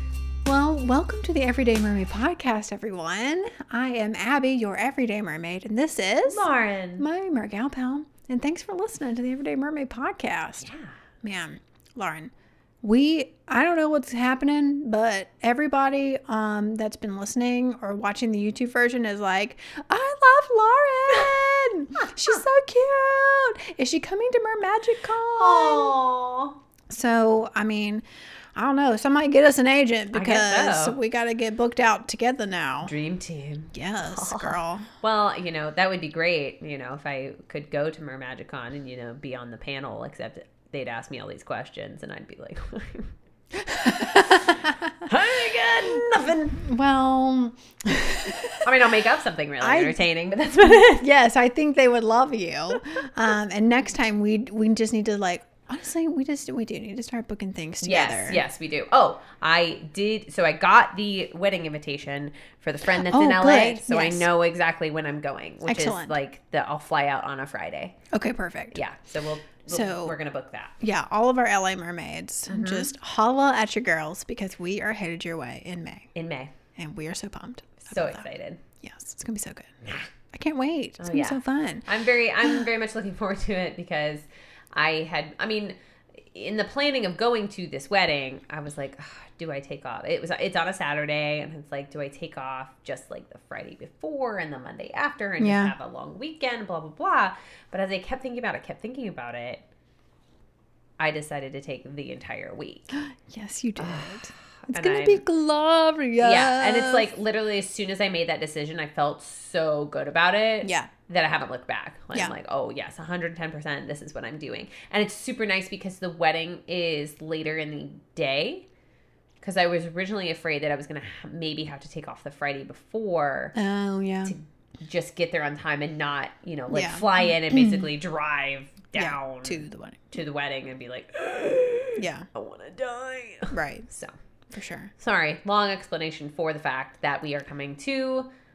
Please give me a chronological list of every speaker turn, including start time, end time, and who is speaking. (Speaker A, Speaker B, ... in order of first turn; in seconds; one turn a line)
Speaker A: 0.4-6.5
Speaker B: 6.3-7.1
Speaker A: 7.0-10.7
Speaker B: 10.6-11.0
Speaker A: 11.2-26.0
Speaker B: 25.3-26.6
Speaker A: 26.9-28.0
Speaker A: 28.5-32.9
Speaker B: 30.1-31.0
Speaker B: 32.8-43.1
Speaker A: 33.7-34.9
Speaker A: 43.5-45.0
Speaker B: 45.0-46.6
Speaker A: 45.8-48.7
Speaker B: 48.6-51.1
Speaker A: 49.6-50.0
Speaker A: 50.6-58.4
Speaker B: 57.8-68.0
Speaker A: 62.9-64.3
Speaker A: 65.7-66.2
Speaker A: 68.1-68.8
Speaker B: 68.7-70.7
Speaker A: 69.7-70.2
Speaker A: 70.8-76.1
Speaker B: 72.5-72.9
Speaker B: 76.2-76.5
Speaker A: 76.8-78.3
Speaker B: 77.8-78.6
Speaker A: 78.8-81.9
Speaker B: 81.0-99.7
Speaker A: 95.4-95.7
Speaker B: 101.0-102.9
Speaker A: 102.9-107.1
Speaker B: 103.8-105.2
Speaker B: 106.2-118.7
Speaker A: 110.6-110.9
Speaker B: 119.4-123.5
Speaker A: 123.5-124.3
Speaker B: 124.2-134.1
Speaker A: 126.7-127.9
Speaker A: 128.9-130.1
Speaker A: 132.0-132.3
Speaker A: 133.5-133.9
Speaker A: 134.5-134.9
Speaker B: 135.0-138.3